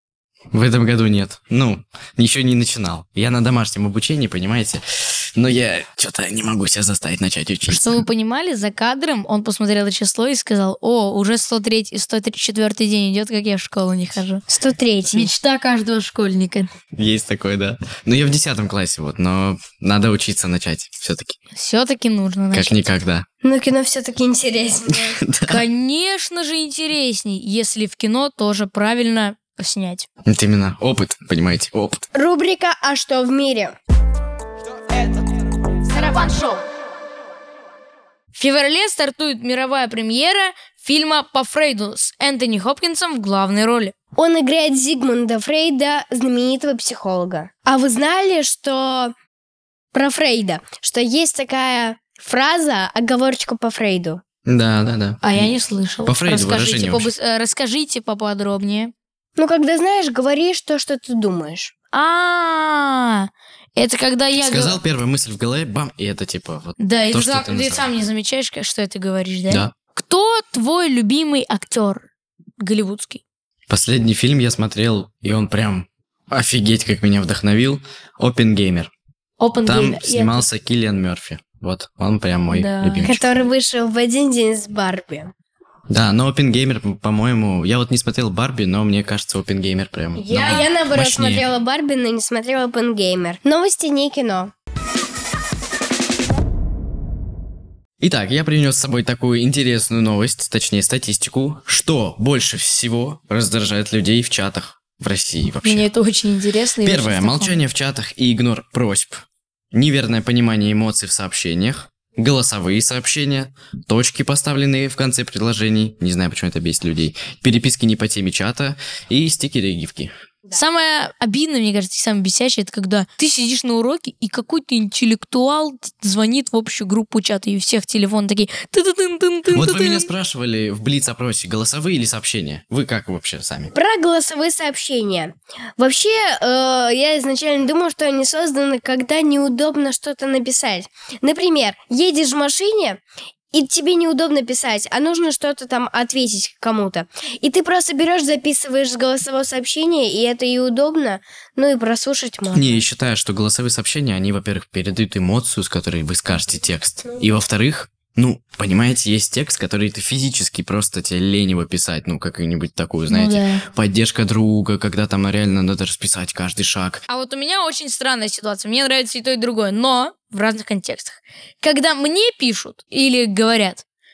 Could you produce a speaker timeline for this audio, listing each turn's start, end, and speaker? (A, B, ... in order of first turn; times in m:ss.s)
0:00.5-0:08.0 A
0:07.7-0:14.4 B
0:14.5-0:15.3 C
0:15.1-0:16.7 B
0:17.0-0:21.4 A
0:21.5-0:22.9 B
0:22.5-0:23.3 A
0:23.4-0:25.2 C
0:24.9-0:25.6 A
0:25.5-0:30.1 B
0:30.3-0:32.1 A
0:32.1-0:33.8 C
0:36.0-0:36.5 C
0:38.3-0:43.9 B
0:44.2-0:49.1 C
0:49.9-0:54.2 C
0:54.5-0:57.1 A
0:55.2-0:58.9 B
0:59.4-1:01.8 C
1:01.9-1:04.8 B
1:04.4-1:07.9 A
1:06.8-1:12.1 B
1:09.5-1:09.7 A
1:12.6-1:13.2 B
1:13.7-1:18.9 A
1:19.4-1:20.4 B
1:19.6-1:23.3 A
1:22.5-1:23.2 B
1:23.0-1:25.3 C
1:25.9-1:31.5 A
1:30.2-1:34.5 C
1:38.0-1:45.9 A
1:45.6-1:47.6 B
1:46.8-2:00.1 A
2:00.5-2:10.1 B
2:09.5-2:13.7 A
2:13.8-2:23.0 C
2:23.5-2:32.8 C
2:32.5-2:47.0 A
2:43.1-2:43.6 B
2:47.1-2:53.8 B